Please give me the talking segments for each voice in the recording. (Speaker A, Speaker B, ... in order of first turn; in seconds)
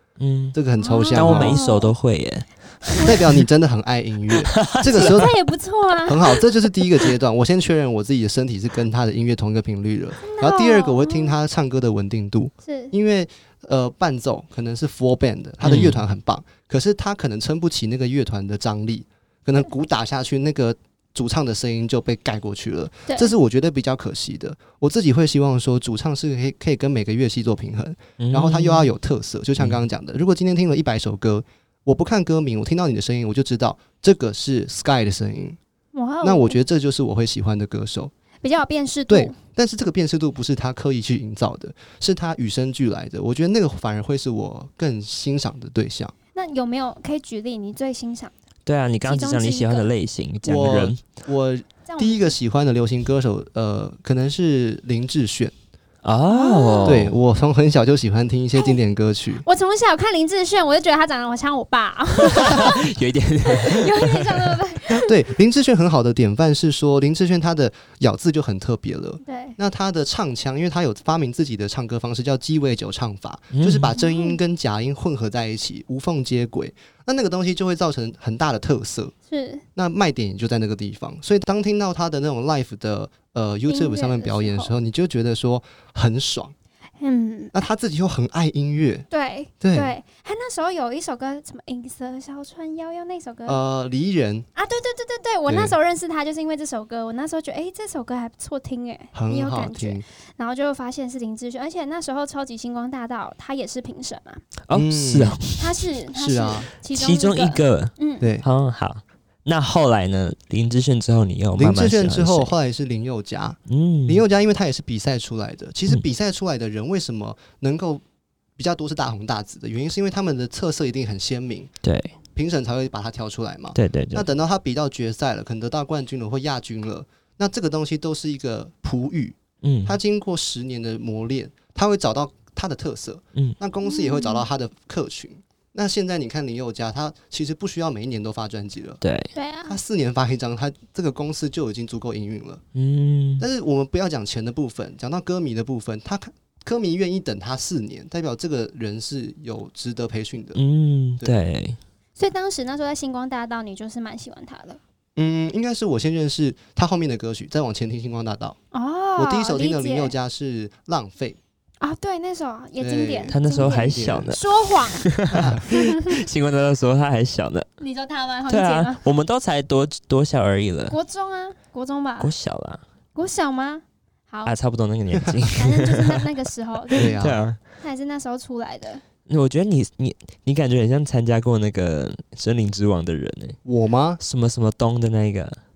Speaker A: 0.2-0.6, 1.1-3.4, 4.4-5.3, 15.6-16.0, 28.2-28.9, 48.6-51.0, 56.0-57.1, 62.2-64.6, 73.5-73.9, 104.7-105.8, 106.9-112.5, 113.7-114.2, 121.8-122.1, 123.8-124.3, 129.6-129.9, 139.0-139.3, 142.8-143.4, 150.6-151.8, 163.3-167.7, 168.5-171.0, 172.2-172.8, 174.4-176.2, 176.9-177.6, 179.3-183.6, 184.2-185.6
Speaker B: 0.5-1.6, 3.0-5.3, 6.1-35.6, 36.2-38.1, 39.1-46.1, 50.4-55.5, 56.9-59.4, 64.9-79.1, 79.8-86.5, 87.5-89.1, 89.6-89.9, 93.5-94.5, 95.5-95.8, 99.1-100.0, 104.7-105.4, 106.1-106.7, 108.2-108.5, 111.6-118.0, 118.6-121.7, 122.3-139.0, 139.7-142.6, 143.4-150.6, 155.2-158.6, 159.2-161.4, 162.8-164.3, 165.3-165.7, 177.0-177.4, 183.6-184.2
Speaker C: 0.8-1.9, 2.9-3.2, 4.9-6.4, 10.2-11.3, 12.6-12.9, 35.9-36.6, 38.4-39.4, 46.4-48.3, 49.0-49.9, 51.9-52.4, 56.3-57.0, 59.4-62.9, 63.4-65.1, 69.2-69.6, 74.0-74.4, 79.3-79.6, 83.7-84.7, 87.0-87.7, 89.1-93.6, 94.6-104.4, 105.6-108.3, 133.8-134.4, 139.3-139.8, 152.2-154.8, 158.7-160.1, 161.8-165.1, 165.7-166.2, 167.8-169.0, 170.9-172.3, 173.2-174.5, 175.6-179.0